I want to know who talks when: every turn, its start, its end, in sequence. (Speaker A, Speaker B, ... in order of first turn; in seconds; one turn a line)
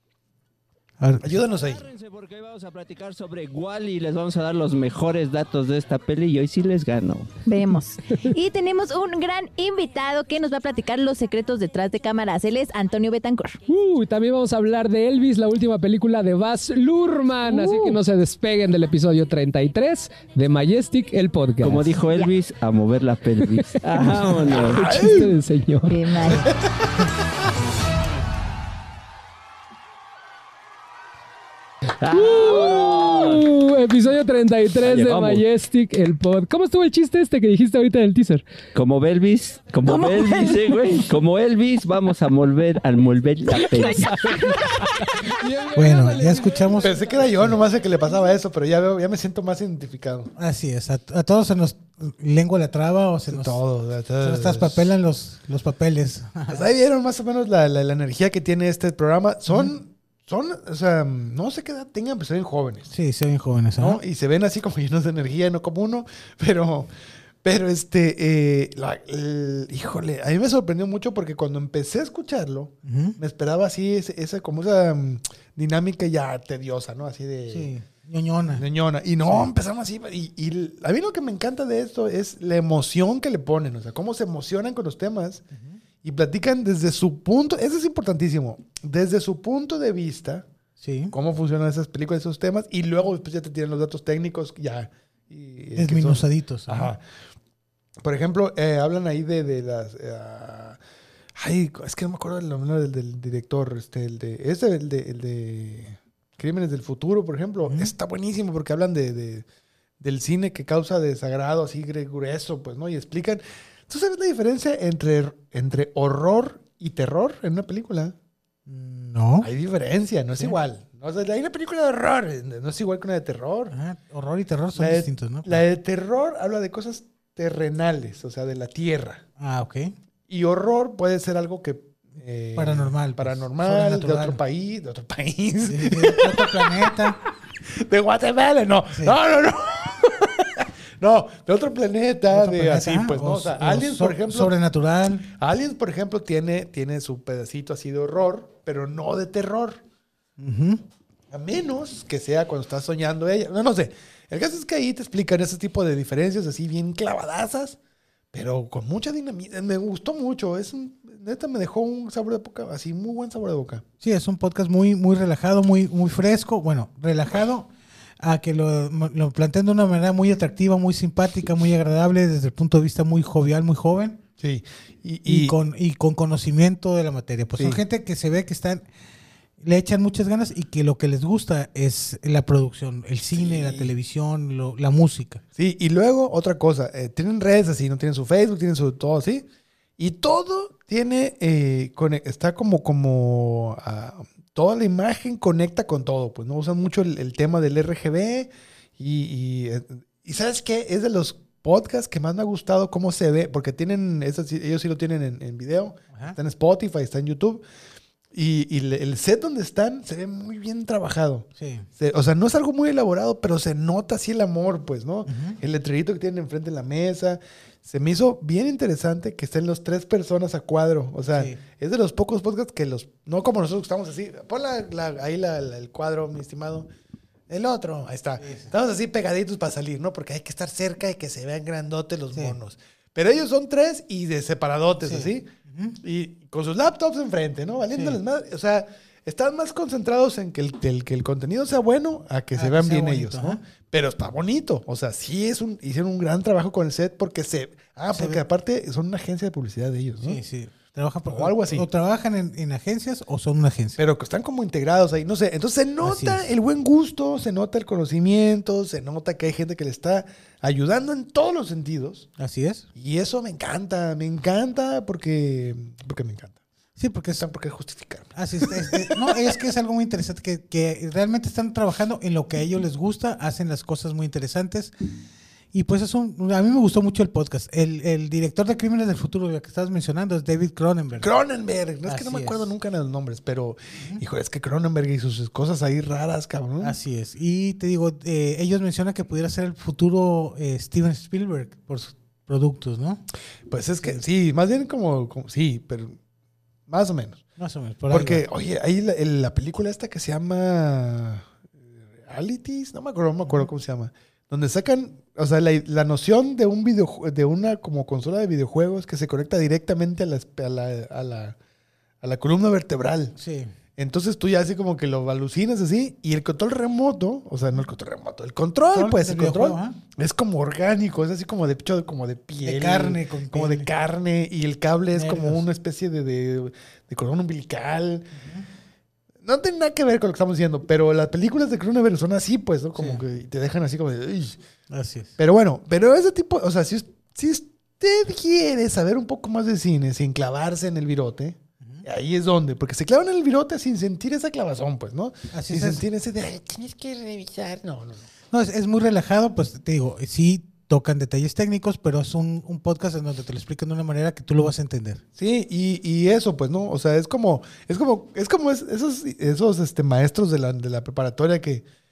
Speaker A: 1.0-1.4
Speaker B: 1.2-1.9
Speaker C: 1.5-7.3
Speaker D: 7.5-13.6
Speaker E: 8.1-8.3
Speaker E: 13.7-22.0
Speaker D: 17.5-18.0
Speaker C: 21.6-24.9
Speaker E: 23.5-26.1
Speaker B: 24.7-25.3
Speaker D: 25.9-26.5
Speaker C: 32.0-33.4
Speaker E: 32.1-38.4
Speaker C: 34.8-35.4
Speaker C: 38.7-44.9
Speaker E: 39.9-41.0
Speaker E: 43.5-47.4
Speaker A: 45.7-47.5
Speaker B: 46.8-50.3
Speaker A: 50.4-53.6
Speaker B: 53.3-54.9
Speaker A: 54.2-56.6
Speaker B: 56.5-62.9
Speaker A: 62.9-64.0
Speaker B: 63.8-66.9
Speaker B: 67.4-77.7
Speaker A: 72.8-73.2
Speaker A: 77.5-78.7
Speaker B: 78.5-85.4
Speaker A: 79.2-79.5
Speaker A: 85.5-85.8
Speaker B: 86.0-90.5
Speaker A: 90.8-91.1
Speaker B: 91.1-97.0
Speaker A: 95.7-96.9
Speaker B: 98.0-100.8
Speaker B: 101.4-109.5
Speaker A: 107.6-107.9
Speaker B: 110.0-118.1
Speaker A: 118.7-119.5
Speaker B: 119.4-123.7
Speaker A: 123.7-125.6
Speaker B: 124.7-129.2
Speaker A: 129.4-129.9
Speaker B: 130.3-137.1
Speaker A: 132.6-134.4
Speaker A: 135.6-137.2
Speaker B: 137.7-144.6
Speaker A: 142.3-145.3
Speaker B: 145.2-149.8
Speaker A: 150.4-150.8
Speaker B: 151.3-157.8
Speaker B: 158.3-163.8
Speaker A: 164.0-174.2
Speaker B: 174.4-175.6
Speaker A: 175.2-178.8
Speaker B: 177.6-177.8
Speaker A: 179.6-185.4
Speaker B: 183.3-183.9
Speaker B: 185.6-189.5
Speaker B: 190.0-207.6
Speaker B: 208.3-226.9
Speaker A: 211.6-211.9
Speaker A: 215.2-215.6
Speaker A: 221.3-221.6
Speaker B: 227.5-235.5
Speaker A: 228.4-228.7
Speaker A: 235.0-236.0
Speaker B: 236.0-250.4
Speaker A: 242.5-243.6
Speaker A: 248.1-248.4
Speaker A: 250.2-254.0
Speaker B: 251.3-251.9
Speaker B: 254.0-262.3
Speaker A: 256.0-256.4
Speaker A: 262.4-262.9
Speaker B: 262.9-266.6
Speaker A: 267.0-267.5
Speaker B: 267.4-269.5
Speaker A: 268.4-274.9
Speaker A: 275.7-281.3
Speaker B: 281.2-286.9
Speaker A: 282.1-282.7
Speaker A: 286.8-293.2
Speaker B: 293.7-296.2
Speaker B: 296.9-297.4
Speaker A: 297.6-298.4
Speaker B: 298.1-311.6
Speaker B: 312.2-313.4
Speaker A: 313.4-313.7
Speaker B: 314.0-328.3
Speaker A: 318.9-320.0
Speaker A: 322.6-323.9
Speaker A: 325.1-325.6
Speaker A: 328.3-328.6
Speaker B: 329.4-334.6
Speaker A: 332.9-333.2
Speaker A: 334.9-335.4
Speaker B: 335.4-348.2
Speaker A: 345.5-346.0
Speaker A: 348.5-355.2
Speaker B: 355.4-361.9